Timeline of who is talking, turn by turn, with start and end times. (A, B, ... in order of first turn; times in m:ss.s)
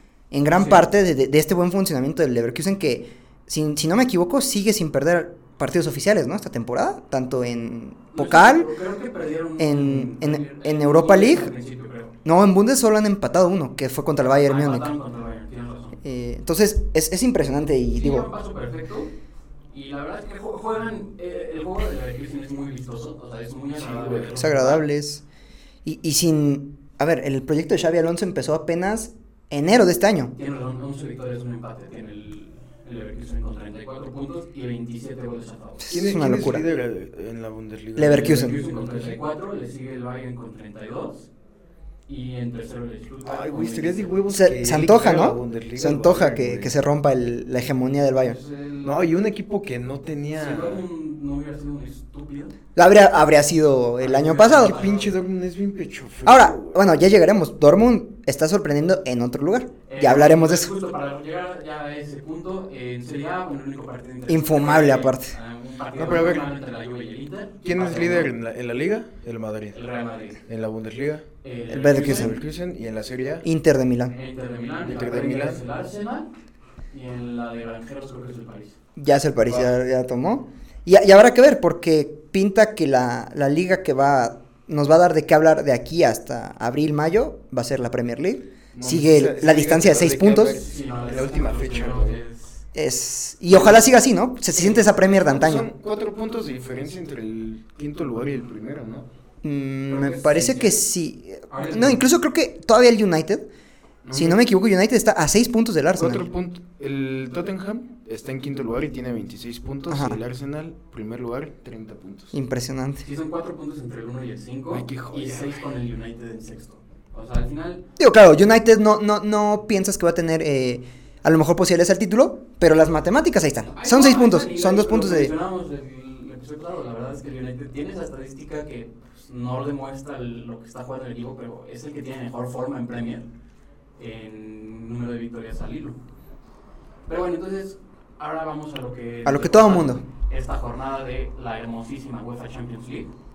0:00.3-0:08.7 A
0:00.5-0:00.9 B
0:08.1-0:12.1 B
0:09.6-0:11.5 A
0:12.2-0:14.9 A
0:14.4-0:16.0 B
0:16.0-0:18.3 A
0:17.9-0:19.1 B
0:19.7-0:24.8 B
0:23.7-0:24.4 C
0:24.4-0:25.2 A
0:25.8-0:30.3 A
0:30.4-0:36.0 B
0:35.8-0:36.7 A
0:35.9-0:39.2 C
0:38.0-0:38.6 A
0:38.0-0:41.3 B
0:42.1-0:44.2 B
0:43.2-0:46.7 C
0:44.3-0:48.4 A
0:48.2-0:49.0 B
0:48.8-0:50.8 C
0:50.4-0:52.5 B
0:52.8-0:54.8 A
0:54.0-0:55.2 B
0:54.5-0:56.9 C
0:56.3-1:00.7 A
0:59.9-1:08.3 B
1:04.3-1:05.3 A
1:06.0-1:06.5 C
1:07.6-1:09.8 C
1:09.7-1:10.4 B
1:10.5-1:11.2 C
1:11.4-1:12.4 B
1:11.7-1:12.4 A
1:11.8-1:13.5 C
1:13.4-1:14.1 A
1:14.1-1:16.3 B
1:14.8-1:15.6 C
1:16.9-1:18.8 B
1:19.0-1:30.6 A
1:19.5-1:19.7 C
1:28.7-1:32.2 C
1:30.5-1:32.6 B
1:32.7-1:35.7 A
1:34.6-1:39.1 C
1:39.4-1:43.5 A
1:39.9-1:40.8 B
1:41.5-1:42.0 B
1:44.0-1:44.4 C
1:44.1-1:46.3 A
1:46.0-1:52.3 C
1:49.9-1:50.2 A
1:52.3-1:53.1 A
1:53.0-1:57.8 B
1:54.7-1:55.6 C
1:58.0-2:05.3 A
2:03.7-2:13.3 B
2:14.0-2:16.0 B
2:17.1-2:23.1 B
2:19.2-2:20.0 A